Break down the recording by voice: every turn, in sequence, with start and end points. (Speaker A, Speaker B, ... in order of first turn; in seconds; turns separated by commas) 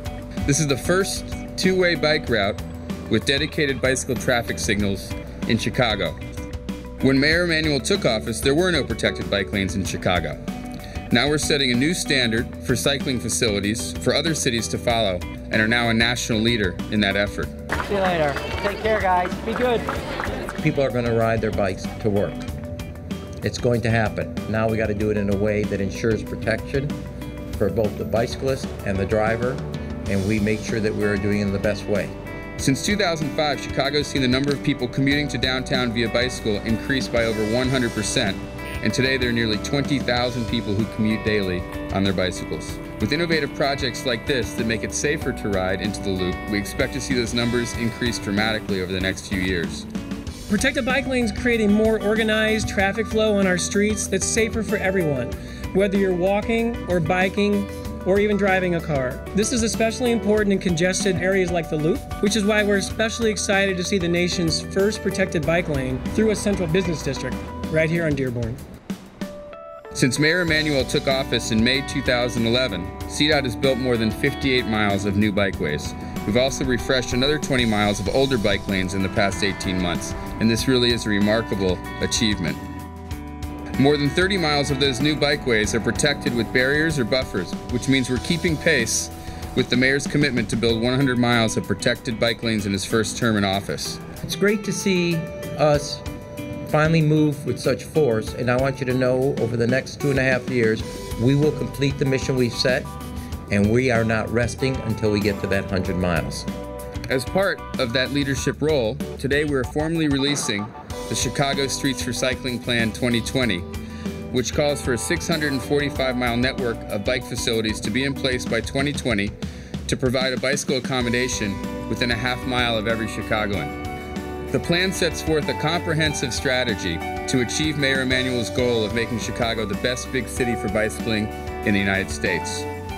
Speaker A: 0.5-6.2, Speaker A: 7.0-10.4, Speaker A: 11.1-17.5, Speaker B: 17.9-19.9, Speaker C: 20.6-22.4, Speaker C: 23.4-26.9, Speaker C: 27.6-32.1, Speaker A: 32.6-49.9, Speaker D: 50.5-68.6, Speaker A: 69.9-82.6, Speaker A: 83.8-94.0, Speaker C: 94.2-96.0, Speaker C: 96.7-102.9, Speaker C: 103.5-106.5, Speaker A: 107.1-113.7, Speaker A: 114.3-119.3, Speaker A: 119.8-123.7, Speaker A: 124.5-132.7